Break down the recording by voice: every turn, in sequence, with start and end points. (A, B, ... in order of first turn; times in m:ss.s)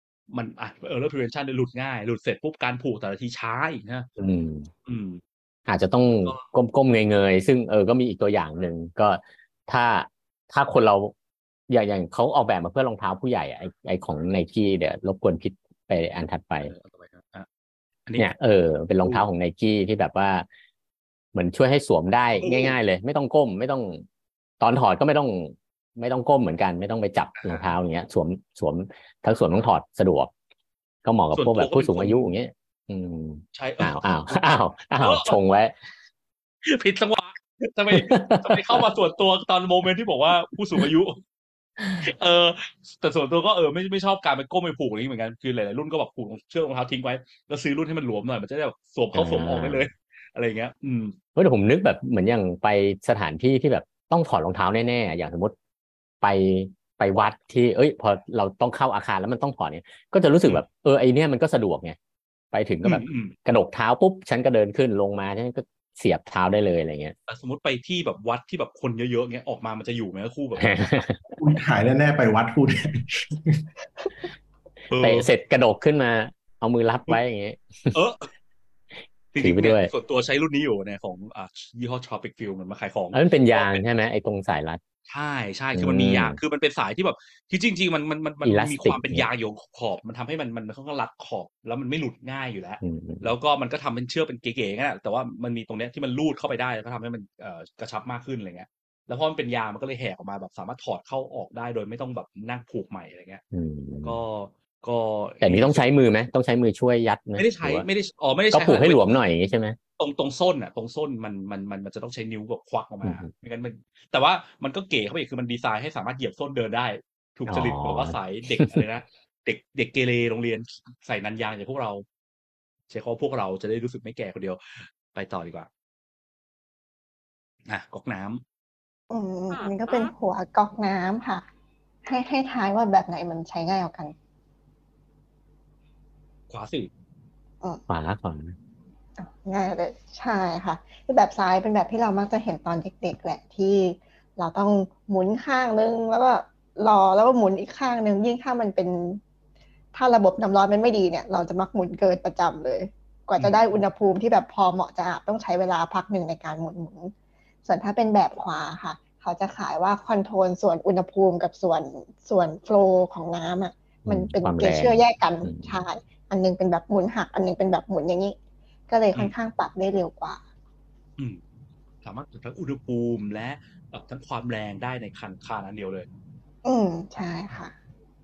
0:00.3-0:04.1 A
0:04.2-0:04.7 B
0:04.9-0:05.2 A
0:05.7-0:11.1 B
0:11.7-0:16.7 B
0:16.6-0:17.5 A
0:18.1-0:18.3 A
0:18.2-0:20.5 B
0:21.3-0:24.0 B
0:22.4-0:22.8 A
0:24.6-0:30.3 B
0:27.4-0:27.7 A
0:31.0-0:35.8 B
0:31.3-0:32.3 A
0:33.5-0:34.5 A
0:35.0-0:35.4 A
0:36.6-0:41.2 A
0:37.9-0:38.8 B
0:42.0-0:51.2 A
0:49.1-0:49.9 B
0:51.4-0:55.6 B
0:56.2-1:02.0 B
1:02.5-1:07.2 B
1:02.8-1:03.4 A
1:07.3-1:11.1 A
1:10.6-1:11.4 B
1:11.4-1:13.6 C
1:14.9-1:15.3 A
1:15.0-1:18.0 B
1:17.9-1:18.3 A
1:19.3-1:23.8 A
1:19.4-1:19.9 B
1:23.1-1:24.8 B
1:25.1-1:43.4 A
1:25.7-1:26.4 B
1:28.4-1:29.3 B
1:32.8-1:33.3 B
1:43.5-1:44.2 B
1:44.0-1:45.9 A
1:45.4-1:47.9 B
1:47.4-1:49.2 A
1:48.5-1:49.8 B
1:50.0-2:02.0 A
1:53.0-1:53.3 B
1:57.5-1:58.8 B
2:02.9-2:05.7 A
2:07.7-2:08.4 A
2:09.1-2:11.4 D
2:12.0-2:14.1 D
2:16.5-2:16.9 A
2:17.9-2:18.6 B
2:19.2-2:29.2 D
2:29.9-2:37.1 D
2:37.6-2:48.4 D
2:44.1-2:45.8 B
2:48.9-2:50.4 D
2:52.0-2:56.1 A
2:56.6-2:57.8 D